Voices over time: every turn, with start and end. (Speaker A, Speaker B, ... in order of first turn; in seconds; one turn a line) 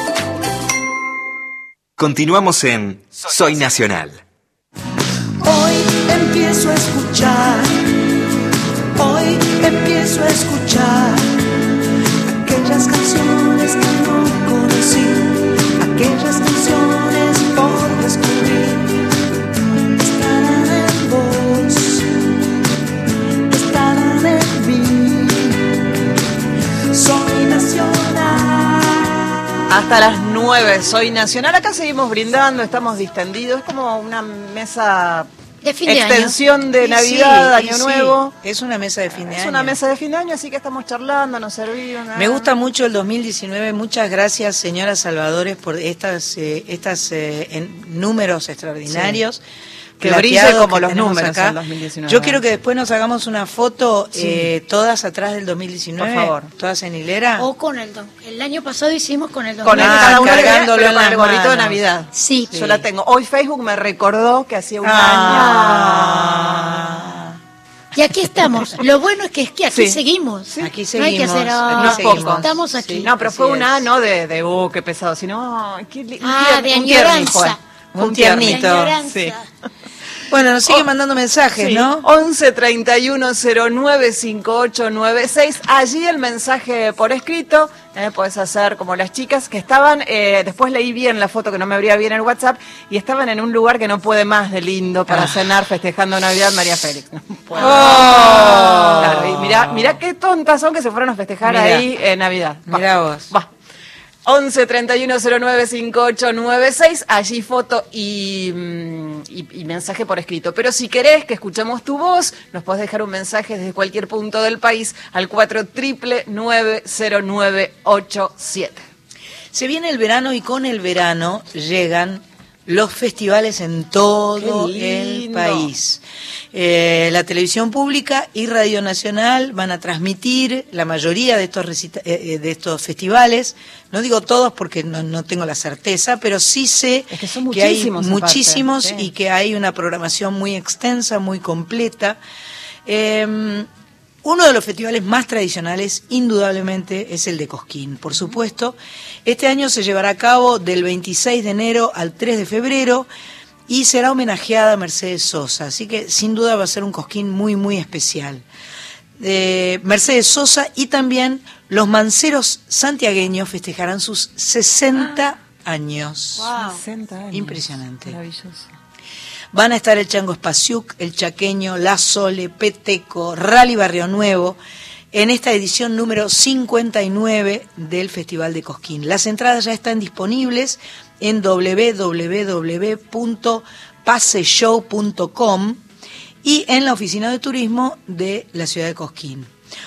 Speaker A: 2.0-4.2
Speaker B: 5.4-7.8
Speaker B: 9.0-11.2
Speaker B: 12.3-19.0
Speaker B: 19.8-22.3
Speaker B: 23.5-25.6
Speaker B: 26.9-29.2
Speaker C: 29.7-35.3
Speaker D: 35.6-36.4
Speaker C: 35.9-38.3
Speaker E: 36.8-39.8
Speaker C: 39.3-42.5
Speaker E: 42.1-49.4
Speaker C: 48.9-49.2
Speaker E: 50.0-57.5
Speaker C: 50.0-52.4
Speaker C: 54.2-54.5
Speaker C: 56.0-56.5
Speaker D: 57.4-60.6
Speaker C: 59.6-66.6
Speaker E: 59.7-61.8
Speaker D: 62.1-62.7
Speaker E: 62.5-62.8
Speaker E: 64.8-67.3
Speaker D: 65.3-65.8
Speaker D: 68.0-73.2
Speaker C: 69.7-70.7
Speaker E: 70.6-73.7
Speaker C: 71.7-79.3
Speaker D: 76.2-77.6
Speaker E: 77.9-79.0
Speaker D: 78.3-79.4
Speaker E: 80.3-82.0
Speaker C: 81.6-103.5
Speaker E: 95.1-95.4
Speaker D: 97.5-99.0
Speaker E: 97.5-100.0
Speaker E: 101.4-101.9
Speaker E: 102.7-103.3
Speaker C: 104.2-118.9
Speaker E: 119.5-142.2
Speaker C: 124.4-125.7
Speaker C: 137.1-139.1
Speaker E: 142.9-143.7
Speaker E: 144.2-153.1
Speaker E: 153.7-158.4
Speaker E: 159.2-166.5
Speaker C: 166.4-168.7
Speaker E: 167.3-168.2
Speaker E: 169.5-174.6
Speaker E: 175.1-185.8
Speaker E: 186.4-189.5